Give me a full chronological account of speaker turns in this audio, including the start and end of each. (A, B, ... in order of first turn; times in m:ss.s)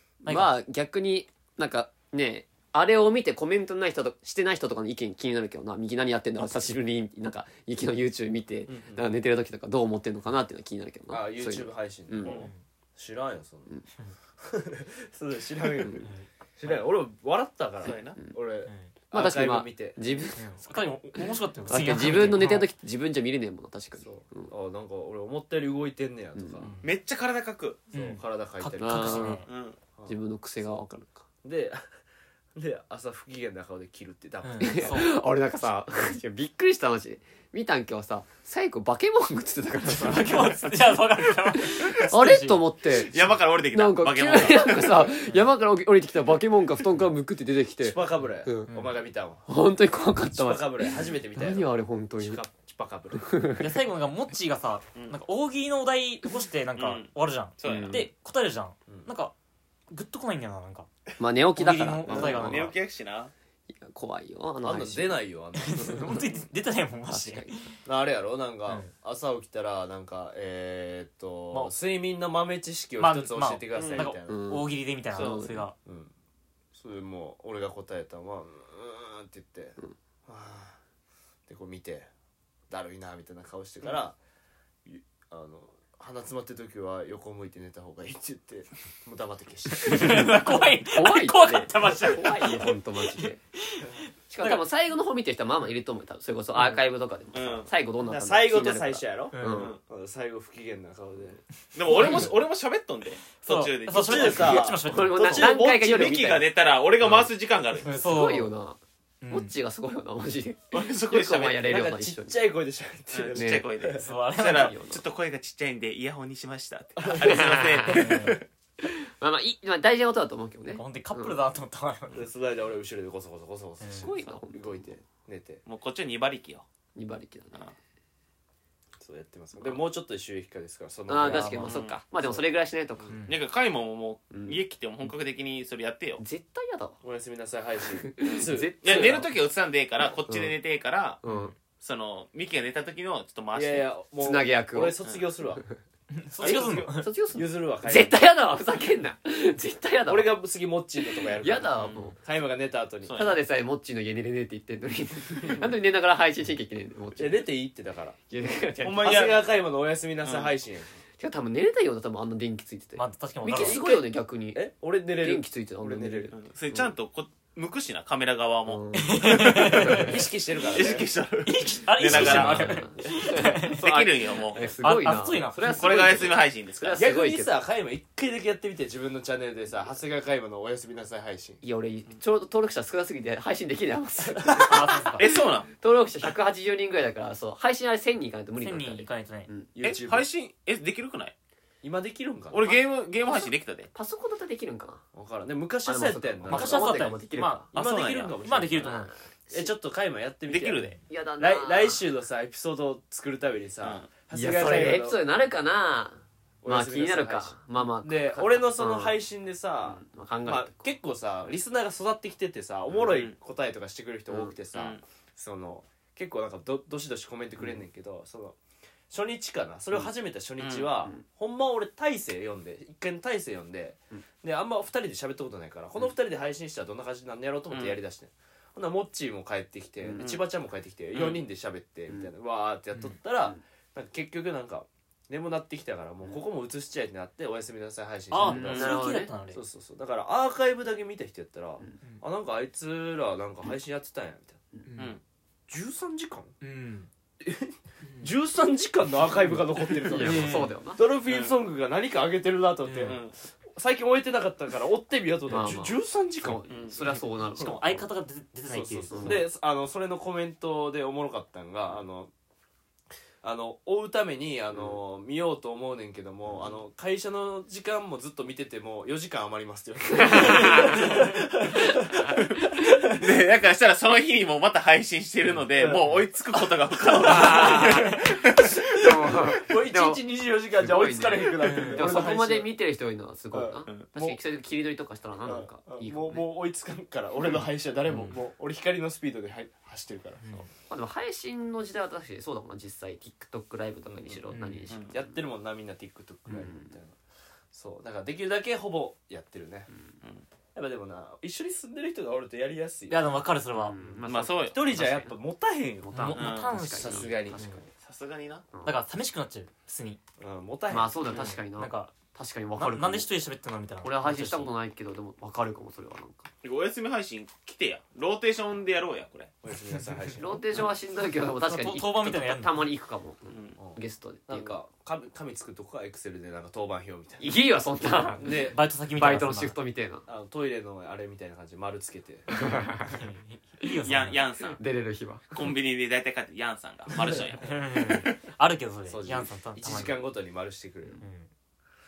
0:00.2-0:00.5 A
0:00.2-0:12.4 B
0:08.7-0:09.2 C
0:11.1-0:13.8 C
0:12.2-0:12.6 A
0:14.4-0:20.3 C
0:15.8-0:16.1 B
0:17.8-0:18.2 D
0:18.7-0:18.9 A
0:19.1-0:24.5 B
0:20.4-0:22.7 A
0:24.0-0:26.7 C
0:26.6-0:26.9 A
0:26.8-0:27.8 D
0:27.9-0:29.4 C
0:27.9-0:29.5 A
0:28.7-0:29.4 B
0:29.4-0:29.8 D
0:30.0-0:31.2 B
0:31.4-0:31.8 C
0:32.6-0:35.0 C
0:34.4-0:35.1 A
0:34.6-0:48.7 B
0:39.9-0:42.6 A
0:42.9-0:45.2 D
0:47.8-0:49.5 C
0:49.5-0:52.4 B
0:50.2-0:53.3 C
0:53.1-0:53.7 B
0:53.6-0:59.3 A
0:56.8-0:58.1 D
0:57.6-0:58.1 B
0:58.9-0:59.1 C
0:59.9-1:00.9 A
1:01.2-1:02.7 B
1:01.6-1:02.7 A
1:02.0-1:03.3 D
1:03.7-1:05.1 B
1:04.6-1:06.2 C
1:05.6-1:07.7 A
1:05.8-1:06.2 B
1:07.1-1:07.5 B
1:07.8-1:14.5 C
1:13.0-1:15.7 A
1:13.7-1:14.1 D
1:14.3-1:15.7 B
1:15.1-1:15.4 D
1:15.8-1:16.1 C
1:16.7-1:20.8 C
1:21.5-1:22.1 C
1:22.7-1:24.2 C
1:24.8-1:30.3 C
1:29.8-1:34.6 A
1:29.9-1:30.3 B
1:30.8-1:33.4 B
1:34.3-1:39.8 B
1:37.3-1:37.7 D
1:38.0-1:41.4 C
1:39.3-1:39.7 A
1:39.5-1:39.8 D
1:41.7-1:44.7 D
1:41.8-1:42.3 A
1:41.9-1:42.3 B
1:43.4-1:45.4 A
1:44.0-1:45.7 C
1:44.8-1:46.5 B
1:45.4-1:47.9 D
1:47.9-1:52.3 B
1:47.9-1:48.5 A
1:49.2-1:49.5 A
1:50.7-1:51.7 D
1:51.6-1:54.1 C
1:53.1-1:58.4 D
1:53.3-1:53.7 B
1:54.0-1:54.8 A
1:54.5-1:55.0 B
1:57.0-1:58.1 C
1:57.2-2:01.4 B
1:57.9-1:58.4 A
2:00.7-2:02.2 A
2:02.1-2:05.6 C
2:03.8-2:04.1 A
2:03.9-2:04.8 B
2:05.6-2:06.6 D
2:06.9-2:07.7 B
2:09.0-2:11.8 C
2:11.1-2:13.1 B
2:11.6-2:12.0 D
2:13.1-2:13.4 A
2:13.3-2:16.2 D
2:14.3-2:14.6 B
2:16.2-2:17.0 B
2:17.0-2:19.2 C
2:18.0-2:19.3 B
2:18.2-2:21.2 D
2:21.2-2:21.5 B
2:21.2-2:21.5 A
2:21.8-2:23.9 D
2:23.5-2:25.7 C
2:24.2-2:25.0 B
2:26.1-2:27.1 A
2:26.4-2:28.2 C
2:26.4-2:26.7 D
2:26.4-2:30.3 B
2:30.1-2:33.2 C
2:31.0-2:32.2 B
2:31.7-2:32.1 D
2:33.0-2:33.4 D
2:33.1-2:37.5 B
2:37.2-2:38.2 C
2:38.3-2:39.3 B
2:38.8-2:41.0 C
2:38.8-2:39.4 D
2:40.2-2:40.5 D
2:41.2-2:44.6 B
2:43.0-2:43.8 A
2:43.4-2:46.3 C
2:45.2-2:46.9 B
2:46.3-2:50.1 D
2:48.7-2:50.2 B
2:49.0-2:50.2 A
2:49.9-2:51.1 C
2:50.7-2:52.8 D
2:51.4-2:53.9 A
2:52.0-2:57.5 B
2:53.6-2:54.7 D
2:54.8-2:56.1 A
2:55.6-2:57.0 D
2:56.9-3:01.6 C
3:01.6-3:09.7 B
3:04.3-3:04.7 C
3:04.6-3:05.2 A
3:05.2-3:05.7 D
3:08.6-3:09.5 A
3:09.7-3:10.3 C
3:09.8-3:11.3 D
3:11.8-3:12.8 C
3:12.5-3:13.9 D
3:13.2-3:15.0 B
3:15.1-3:17.0 C
3:15.8-3:17.7 B
3:16.5-3:19.1 A
3:17.7-3:18.4 D
3:17.7-3:25.2 C
3:18.8-3:19.7 B
3:20.5-3:21.0 D
3:21.1-3:22.0 B
3:24.3-3:29.2 B
3:24.5-3:24.8 A
3:24.6-3:25.0 D
3:26.6-3:38.6 C
3:29.8-3:30.9 B
3:32.9-3:33.3 D
3:34.3-3:34.5 B
3:34.7-3:35.0 D
3:39.1-3:58.9 C
3:40.6-3:40.9 D
3:47.7-3:48.0 D
3:51.1-3:51.4 D
3:58.3-3:59.6 A
3:58.4-3:59.3 B
3:59.5-4:04.6 C
4:04.8-4:05.2 A
4:05.7-4:06.5 C
4:06.6-4:07.1 A
4:07.4-4:16.7 C
4:08.0-4:08.3 A
4:10.0-4:10.7 A
4:10.1-4:11.0 B
4:11.2-4:11.5 D
4:12.8-4:13.2 A
4:13.0-4:13.4 D
4:15.5-4:18.0 B
4:16.7-4:17.1 D
4:17.0-4:19.4 A
4:18.7-4:22.3 C
4:19.1-4:19.4 B
4:23.4-4:33.1 C
4:30.1-4:31.2 B
4:31.9-4:32.4 B
4:33.2-4:38.9 D
4:35.8-4:36.1 C
4:37.2-4:38.3 B
4:37.3-4:37.9 C
4:37.4-4:37.9 A
4:38.9-4:42.7 C
4:38.9-4:40.2 B
4:40.8-4:46.4 B
4:41.6-4:42.3 A
4:43.5-4:44.4 C
4:45.4-4:50.4 C
4:50.4-4:50.7 A
4:50.8-4:55.4 B
4:54.0-4:57.1 C
4:54.5-4:54.9 A
4:54.9-4:55.1 D
4:56.5-4:56.9 B
4:57.7-4:59.9 C
5:00.7-5:03.3 C
5:03.1-5:04.0 A
5:03.7-5:05.3 B
5:04.2-5:04.8 D
5:04.4-5:07.9 C
5:06.1-5:07.8 B
5:06.1-5:07.8 A
5:06.3-5:06.8 D
5:08.0-5:08.7 D
5:08.8-5:10.2 A
5:10.4-5:11.1 C
5:10.9-5:13.3 B
5:11.3-5:12.2 A
5:12.8-5:14.7 A
5:14.0-5:16.5 B
5:16.6-5:19.5 D
5:19.6-5:20.6 C
5:20.4-5:24.8 B
5:21.6-5:22.8 A
5:23.5-5:23.8 D
5:23.8-5:27.6 C
5:27.4-5:30.2 B
5:28.3-5:28.8 C
5:28.7-5:29.8 A
5:30.2-5:32.5 C
5:32.5-5:33.3 B
5:33.1-5:34.4 A
5:34.0-5:34.8 D
5:34.6-5:35.7 B
5:35.5-5:38.4 D
5:37.6-5:40.2 A
5:39.1-5:41.2 C
5:41.2-5:41.5 A